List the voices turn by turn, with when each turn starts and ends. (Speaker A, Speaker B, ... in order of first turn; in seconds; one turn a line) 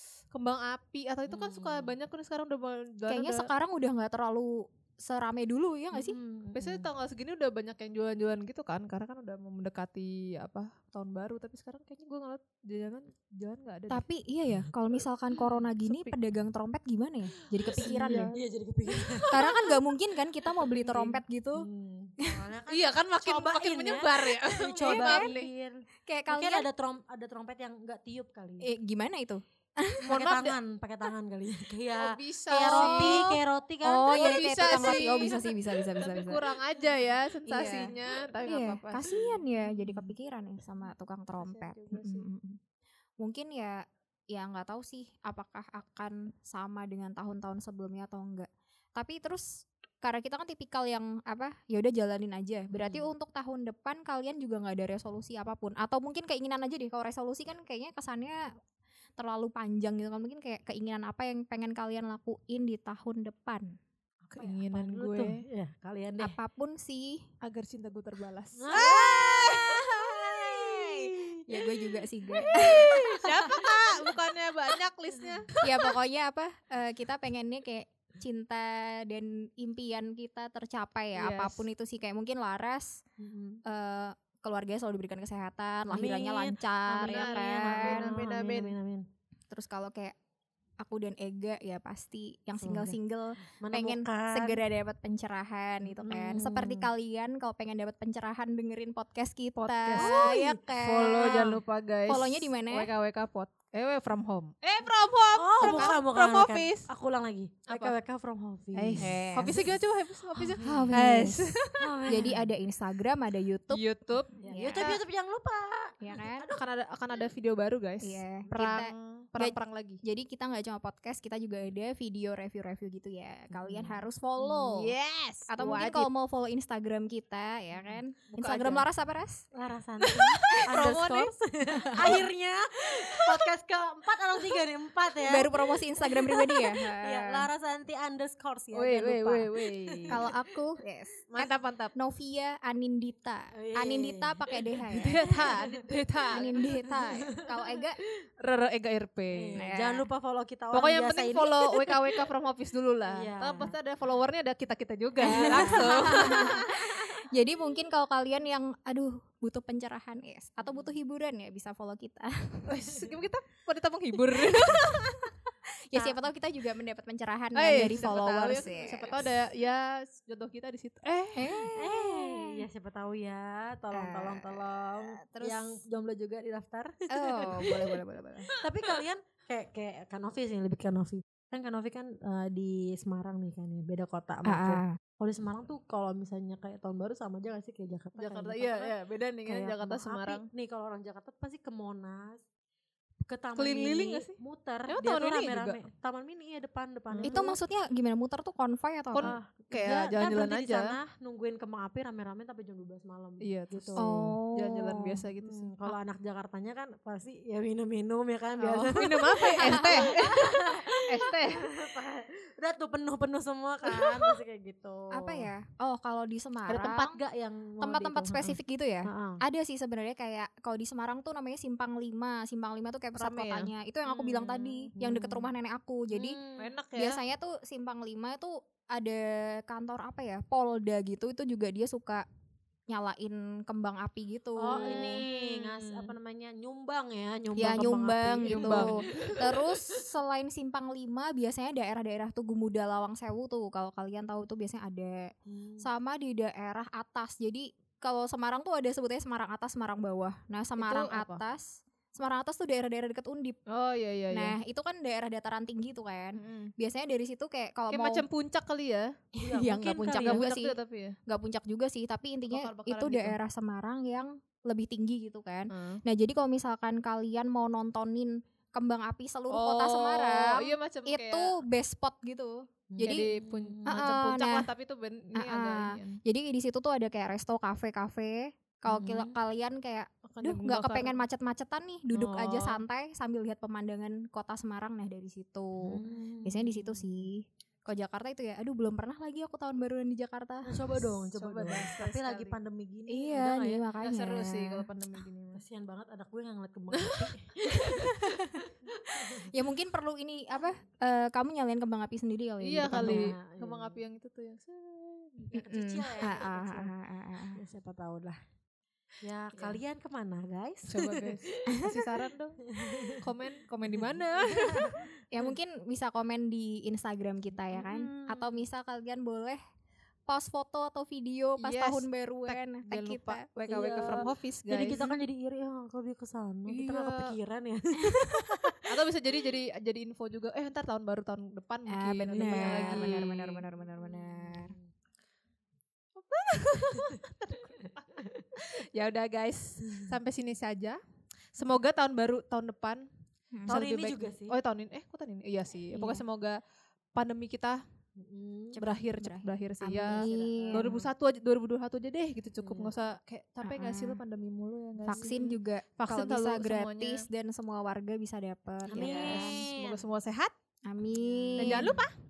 Speaker A: 0.3-3.5
Speaker B: 1.3-2.0
Speaker C: 3.1-6.2
Speaker B: 5.9-6.9
Speaker A: 6.5-14.0
Speaker C: 13.9-18.3
Speaker A: 15.4-16.1
Speaker A: 17.6-19.8
Speaker B: 17.8-19.3
Speaker C: 19.3-21.6
Speaker B: 20.8-28.6
Speaker A: 22.7-25.5
Speaker C: 24.8-25.3
Speaker C: 26.1-26.7
Speaker C: 28.6-30.0
Speaker A: 30.0-30.6
Speaker B: 30.1-35.3
Speaker A: 31.9-33.4
Speaker C: 32.5-33.3
Speaker C: 33.8-36.4
Speaker A: 34.1-39.4
Speaker C: 37.5-37.9
Speaker C: 38.4-42.6
Speaker A: 41.4-42.3
Speaker C: 43.2-58.5
Speaker B: 52.7-53.1
Speaker C: 59.2-63.7
Speaker B: 64.2-66.4
Speaker A: 64.3-65.4
Speaker C: 66.2-67.2
Speaker A: 67.4-69.6
Speaker B: 68.5-73.7
Speaker C: 68.7-73.3
Speaker A: 72.4-75.8
Speaker C: 75.6-83.0
Speaker A: 81.1-81.7
Speaker B: 83.2-83.6
Speaker C: 83.7-88.1
Speaker B: 85.9-89.0
Speaker A: 87.0-88.8
Speaker C: 89.5-90.1
Speaker C: 90.8-101.5
Speaker B: 92.6-93.0
Speaker B: 93.6-94.6
Speaker B: 95.8-96.9
Speaker A: 99.6-106.9
Speaker B: 99.9-100.6
Speaker B: 101.2-101.6
Speaker C: 102.1-102.9
Speaker B: 105.3-109.5
Speaker C: 105.6-105.9
Speaker A: 107.7-108.0
Speaker A: 108.7-112.0
Speaker C: 109.0-109.6
Speaker C: 110.4-113.8
Speaker B: 110.6-111.0
Speaker B: 111.8-112.5
Speaker A: 113.7-115.0
Speaker C: 114.4-114.9
Speaker B: 114.4-117.3
Speaker C: 116.0-116.5
Speaker A: 116.5-120.0
Speaker C: 118.0-124.9
Speaker B: 123.5-124.0
Speaker A: 124.4-126.1
Speaker C: 125.5-129.4
Speaker B: 127.7-128.0
Speaker A: 128.3-128.8
Speaker B: 129.5-135.5
Speaker A: 130.0-131.3
Speaker A: 131.9-132.2
Speaker A: 133.1-133.5
Speaker C: 135.3-137.5
Speaker B: 136.3-140.3
Speaker A: 138.7-140.7
Speaker C: 140.1-145.3
Speaker A: 141.3-141.9
Speaker B: 143.5-144.4
Speaker A: 144.9-147.2
Speaker B: 145.2-145.7
Speaker B: 146.3-147.2
Speaker C: 146.3-148.0
Speaker A: 148.4-149.6
Speaker B: 149.3-152.0
Speaker C: 149.6-150.1
Speaker A: 150.7-156.7
Speaker B: 153.1-153.7
Speaker C: 155.2-162.7
Speaker B: 155.3-156.6
Speaker A: 162.7-164.8
Speaker C: 164.4-165.3
Speaker C: 165.9-169.2
Speaker B: 165.9-166.2
Speaker A: 167.5-171.7
Speaker C: 171.3-172.6
Speaker B: 171.8-178.0
Speaker C: 173.9-175.8
Speaker C: 177.1-178.5
Speaker B: 178.5-188.9
Speaker C: 184.4-185.0
Speaker A: 188.2-190.5
Speaker B: 189.4-192.4
Speaker B: 193.2-197.4
Speaker A: 193.6-195.8
Speaker A: 197.1-197.6
Speaker C: 197.2-199.3
Speaker A: 199.1-201.0
Speaker B: 199.2-204.4
Speaker A: 203.4-205.9
Speaker C: 204.0-205.2
Speaker B: 205.4-215.5
Speaker A: 208.6-211.7
Speaker C: 209.5-210.2
Speaker C: 215.1-217.2
Speaker B: 216.7-219.4
Speaker C: 217.8-226.4
Speaker A: 223.2-223.7
Speaker B: 224.1-225.5
Speaker A: 224.4-224.9
Speaker B: 226.1-226.7
Speaker A: 226.6-227.2
Speaker C: 226.9-232.2
Speaker C: 232.9-235.2
Speaker B: 234.6-240.0
Speaker A: 234.7-236.2
Speaker C: 237.5-245.2
Speaker A: 238.4-239.4
Speaker B: 245.5-245.9
Speaker C: 245.8-253.6
Speaker A: 250.8-251.4
Speaker A: 253.7-254.6
Speaker C: 254.3-258.2
Speaker A: 256.4-256.7
Speaker A: 257.9-259.1
Speaker B: 259.4-260.4
Speaker C: 259.4-260.7
Speaker A: 260.1-261.1
Speaker C: 261.3-273.3
Speaker A: 262.5-263.4
Speaker A: 265.7-266.0
Speaker A: 269.5-271.6
Speaker B: 272.9-274.1
Speaker A: 273.0-276.2
Speaker C: 273.9-274.7
Speaker C: 275.4-290.7
Speaker B: 278.9-279.4
Speaker A: 280.4-281.2
Speaker B: 282.1-282.8
Speaker B: 285.8-287.3
Speaker B: 290.6-293.9
Speaker A: 291.3-292.6
Speaker C: 293.1-294.9
Speaker A: 294.0-295.6
Speaker B: 295.5-297.6
Speaker A: 296.9-298.1
Speaker C: 297.7-298.7
Speaker B: 299.1-299.5
Speaker C: 299.4-303.3
Speaker A: 302.6-305.6
Speaker B: 302.9-304.0
Speaker B: 305.5-306.9
Speaker C: 305.6-307.6
Speaker B: 307.5-308.4
Speaker B: 309.2-312.1
Speaker A: 309.5-309.8
Speaker A: 310.9-315.0
Speaker B: 312.7-313.2
Speaker B: 313.9-315.5
Speaker C: 315.3-319.6
Speaker B: 317.7-318.6
Speaker C: 320.3-323.4
Speaker A: 321.6-325.1
Speaker B: 323.7-328.8
Speaker A: 326.7-327.3
Speaker C: 328.1-328.6
Speaker A: 328.9-333.6
Speaker C: 331.9-334.7
Speaker B: 332.3-333.3
Speaker B: 333.9-334.9
Speaker A: 336.3-341.0
Speaker A: 341.5-343.1
Speaker C: 343.5-343.8
Speaker B: 343.7-344.6
Speaker A: 343.7-346.6
Speaker C: 345.9-346.2
Speaker A: 347.1-347.8
Speaker B: 348.2-348.8
Speaker C: 348.7-350.9
Speaker A: 348.8-357.2
Speaker B: 350.1-351.1
Speaker B: 352.6-352.9
Speaker C: 353.6-354.2
Speaker C: 355.1-359.6
Speaker B: 355.1-355.5
Speaker B: 358.9-360.0
Speaker A: 358.9-360.5
Speaker C: 360.9-362.0
Speaker B: 361.2-362.1
Speaker A: 361.6-362.1